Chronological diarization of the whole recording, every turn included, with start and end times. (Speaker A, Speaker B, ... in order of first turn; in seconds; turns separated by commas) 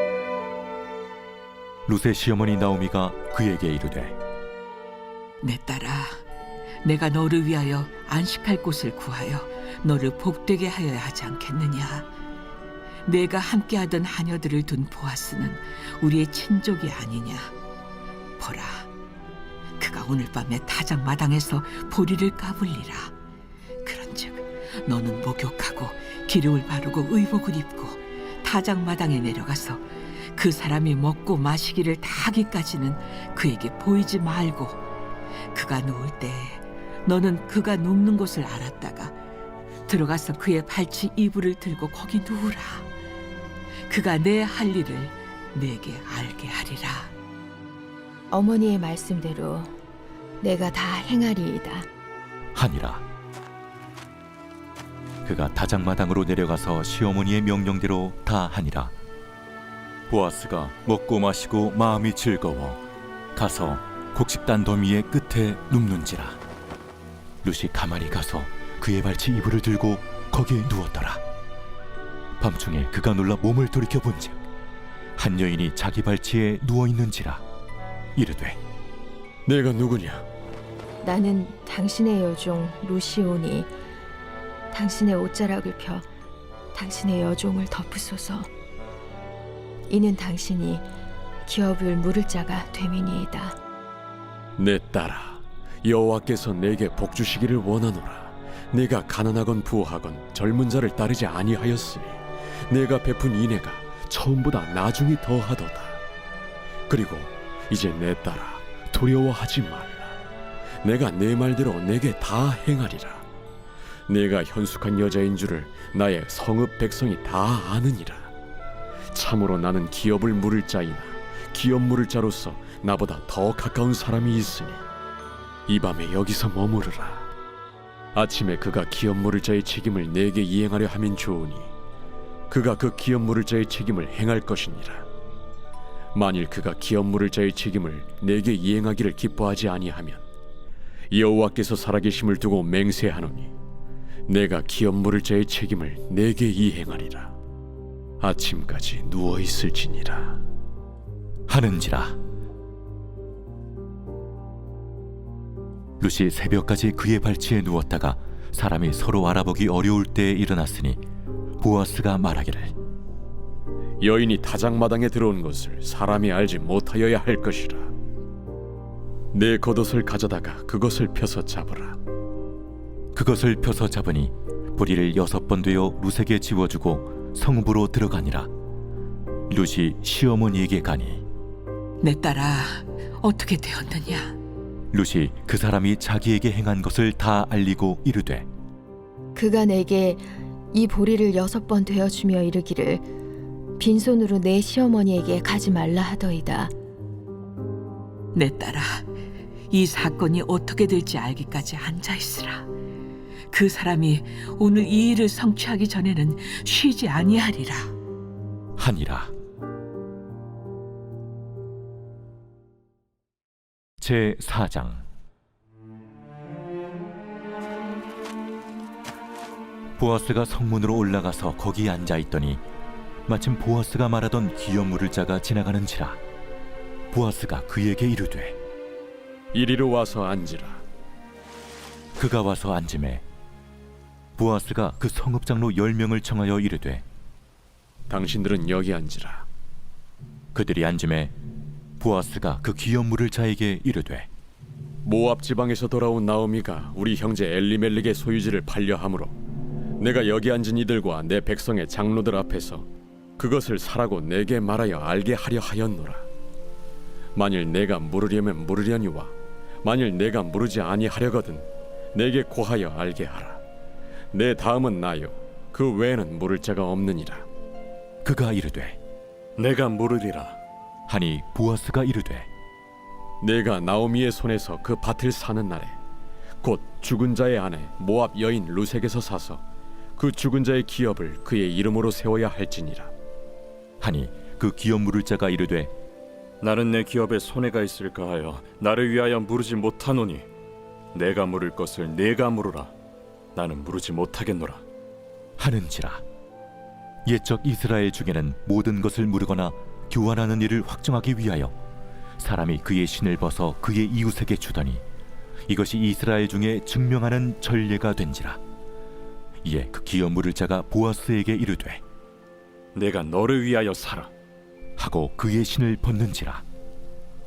Speaker A: 1.9-4.2, Speaker B: 5.4-6.2, Speaker B: 6.8-12.1, Speaker B: 13.1-17.5, Speaker B: 18.4-18.9, Speaker B: 19.8-23.1, Speaker B: 23.8-29.8, Speaker B: 30.3-34.8, Speaker B: 35.5-39.1, Speaker B: 39.9-42.8, Speaker B: 43.9-47.1, Speaker C: 48.3-49.7, Speaker C: 50.4-51.9, Speaker A: 52.5-53.0, Speaker A: 55.2-58.9, Speaker A: 60.1-62.8, Speaker A: 63.3-66.4, Speaker A: 67.4-71.2, Speaker A: 72.4-74.3, Speaker A: 75.2-77.4, Speaker A: 78.2-78.6, Speaker D: 79.5-80.2, Speaker C: 81.0-83.7, Speaker C: 84.7-86.1, Speaker C: 86.7-88.5, Speaker C: 89.9-90.8, Speaker C: 91.5-93.6, Speaker D: 94.6-106.0, Speaker D: 106.9-110.1, Speaker D: 110.8-113.2, Speaker D: 114.1-118.3, Speaker D: 119.1-124.8, Speaker D: 125.7-127.3, Speaker D: 128.1-131.7, Speaker D: 132.5-135.1, Speaker D: 136.1-140.2, Speaker D: 141.1-143.5, Speaker D: 144.3-147.3, Speaker D: 148.2-150.4, Speaker A: 151.5-152.2, Speaker A: 156.0-161.0, Speaker A: 161.6-162.7, Speaker D: 164.0-167.9, Speaker D: 169.3-172.0, Speaker A: 173.1-178.5, Speaker A: 179.5-181.2, Speaker B: 182.0-184.3, Speaker A: 184.9-188.5, Speaker C: 189.3-193.0, Speaker C: 193.8-196.7, Speaker B: 198.3-199.0, Speaker B: 199.7-202.7, Speaker B: 203.5-207.9, Speaker A: 208.8-209.3, Speaker A: 214.0-215.0, Speaker A: 220.0-222.6, Speaker A: 223.3-226.2, Speaker A: 227.1-228.6, Speaker D: 229.5-230.8, Speaker A: 232.2-233.2, Speaker A: 234.3-237.0, Speaker D: 238.1-239.4, Speaker A: 240.5-241.3, Speaker A: 242.0-244.3, Speaker D: 245.0-249.4, Speaker D: 250.0-252.8, Speaker D: 253.4-256.2, Speaker D: 257.4-263.6, Speaker D: 264.3-267.4, Speaker A: 268.2-269.0, Speaker E: 269.6-270.6, Speaker A: 271.1-272.5, Speaker D: 273.4-275.9, Speaker D: 276.6-279.6, Speaker D: 280.2-283.1, Speaker A: 284.0-285.9, Speaker E: 286.6-290.5, Speaker E: 291.1-292.9, Speaker E: 293.5-294.8, Speaker A: 295.6-296.2, Speaker A: 297.2-301.7, Speaker A: 302.4-305.0, Speaker A: 305.7-308.6, Speaker A: 309.6-312.0, Speaker E: 312.9-314.3, Speaker A: 315.0-316.6